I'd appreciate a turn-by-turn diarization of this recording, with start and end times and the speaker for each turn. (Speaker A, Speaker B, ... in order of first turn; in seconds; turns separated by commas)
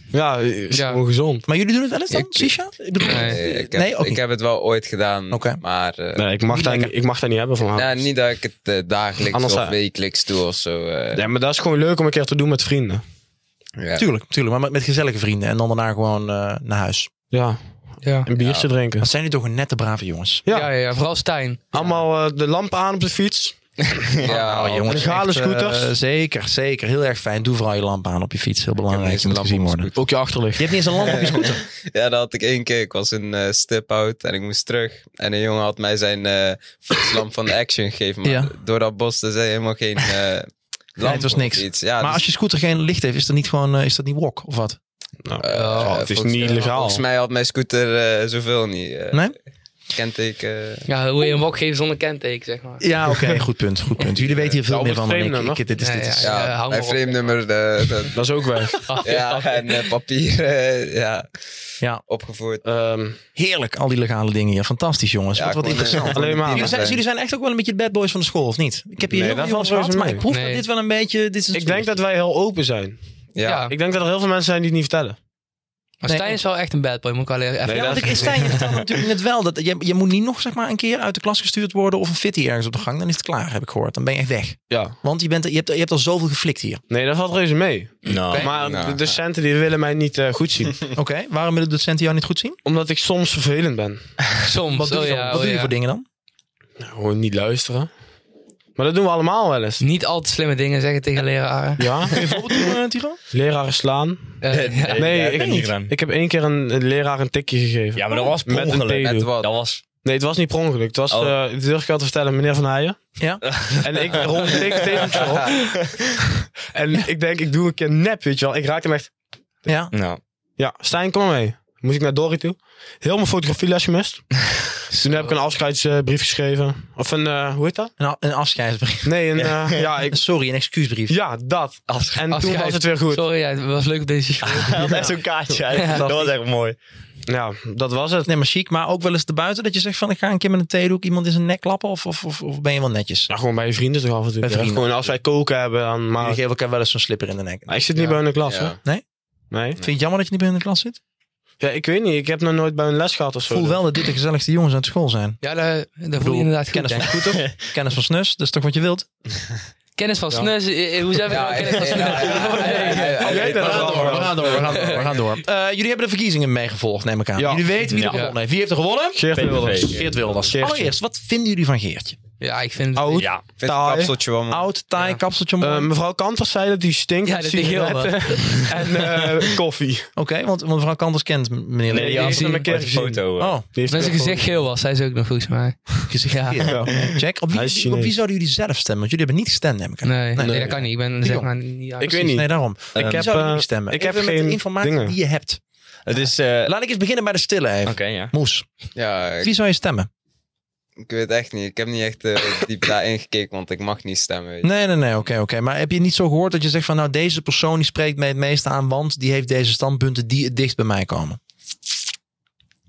Speaker A: 0.1-1.4, Speaker B: 0.7-1.0, Speaker C: 1.4-4.2, Speaker B: 3.0-3.4, Speaker D: 3.2-6.3, Speaker C: 5.3-5.6, Speaker A: 6.2-8.0, Speaker C: 6.5-6.8, Speaker D: 7.7-11.3, Speaker A: 9.3-9.8, Speaker A: 11.1-13.0, Speaker D: 13.8-14.1, Speaker C: 13.9-17.1, Speaker A: 17.3-19.1, Speaker B: 18.0-18.3, Speaker D: 18.4-18.7, Speaker C: 19.0-20.4, Speaker A: 20.4-20.7, Speaker B: 20.5-21.7, Speaker A: 21.7-23.6, Speaker D: 21.8-22.0, Speaker D: 24.2-25.2, Speaker C: 24.2-29.9, Speaker A: 24.9-25.9, Speaker D: 28.9-30.0, Speaker A: 29.9-30.8, Speaker C: 30.5-31.6, Speaker D: 31.0-42.2, Speaker C: 38.2-38.5, Speaker C: 41.0-44.8, Speaker A: 45.2-47.0, Speaker D: 45.4-49.3, Speaker B: 45.5-46.0, Speaker D: 49.9-50.9, Speaker B: 50.9-52.9, Speaker C: 52.8-56.4, Speaker D: 54.2-54.5, Speaker A: 54.6-55.6, Speaker B: 55.8-57.1, Speaker D: 56.2-58.2, Speaker A: 58.1-58.9, Speaker B: 58.8-59.7, Speaker D: 59.0-61.4, Speaker D: 62.1-62.6, Speaker A: 62.6-63.2, Speaker C: 63.4-71.9, Speaker D: 65.3-67.0, Speaker A: 66.1-66.8, Speaker A: 69.1-70.2, Speaker B: 70.3-70.6, Speaker A: 71.5-73.0, Speaker D: 73.3-73.7, Speaker B: 73.4-73.8, Speaker A: 73.7-75.2, Speaker B: 76.0-78.6, Speaker C: 76.1-76.4, Speaker A: 77.7-78.5, Speaker C: 77.7-86.8, Speaker A: 84.7-85.0, Speaker A: 86.9-90.8, Speaker E: 88.1-88.5, Speaker D: 88.4-89.1, Speaker C: 90.9-92.6, Speaker A: 92.6-94.0, Speaker B: 94.4-95.7, Speaker C: 94.7-96.1, Speaker A: 96.8-97.9, Speaker A: 98.8-99.8, Speaker B: 99.8-102.3, Speaker A: 101.8-102.2, Speaker C: 102.1-103.2, Speaker A: 103.3-104.4, Speaker B: 104.4-105.1, Speaker E: 104.5-105.9, Speaker A: 104.9-109.2, Speaker C: 105.4-105.6, Speaker E: 108.0-109.8, Speaker D: 109.0-109.5, Speaker A: 110.0-113.2, Speaker C: 113.2-113.4, Speaker E: 113.4-116.0, Speaker A: 113.8-115.8, Speaker A: 116.7-119.1, Speaker C: 119.7-119.9, Speaker E: 119.9-120.2, Speaker A: 120.6-124.3, Speaker A: 124.9-127.9, Speaker C: 128.0-129.3, Speaker A: 129.0-130.2, Speaker E: 129.4-129.8, Speaker C: 130.1-131.2, Speaker A: 131.1-133.2, Speaker E: 131.9-132.2, Speaker B: 132.3-135.1, Speaker E: 134.4-136.8, Speaker C: 134.8-135.2, Speaker B: 135.7-136.0, Speaker C: 135.9-136.3, Speaker A: 137.3-138.3, Speaker C: 138.2-143.3, Speaker A: 143.3-146.4, Speaker C: 144.4-145.1, Speaker C: 146.2-147.8, Speaker A: 147.7-148.8, Speaker D: 148.4-148.8, Speaker A: 149.5-149.8, Speaker C: 149.8-151.0, Speaker A: 151.6-153.8, Speaker C: 153.5-155.4, Speaker B: 155.4-157.4, Speaker C: 156.2-159.1, Speaker B: 160.0-163.7, Speaker D: 161.2-165.2, Speaker E: 161.9-162.4, Speaker A: 162.7-164.9, Speaker C: 163.2-172.2, Speaker B: 164.4-165.0, Speaker A: 167.4-167.7, Speaker E: 167.9-168.2, Speaker B: 168.0-168.4, Speaker A: 169.1-170.9, Speaker E: 169.3-170.1, Speaker B: 172.4-173.3, Speaker A: 173.0-174.1, Speaker E: 173.2-173.4, Speaker D: 173.6-174.7, Speaker C: 174.5-175.9, Speaker A: 175.6-180.1, Speaker B: 177.2-178.9, Speaker C: 180.2-182.6, Speaker E: 181.9-183.6, Speaker A: 181.9-184.6, Speaker B: 182.1-182.7, Speaker C: 183.4-183.7, Speaker B: 183.9-186.6, Speaker C: 186.1-191.5, Speaker A: 186.6-188.1, Speaker B: 190.0-192.3, Speaker A: 190.4-190.8, Speaker A: 192.0-195.1, Speaker C: 192.1-195.6, Speaker E: 192.9-193.3, Speaker E: 196.1-196.7, Speaker C: 196.1-198.7, Speaker E: 197.9-198.3, Speaker D: 198.9-199.5, Speaker C: 199.4-200.1, Speaker D: 201.0-204.7, Speaker C: 204.6-211.4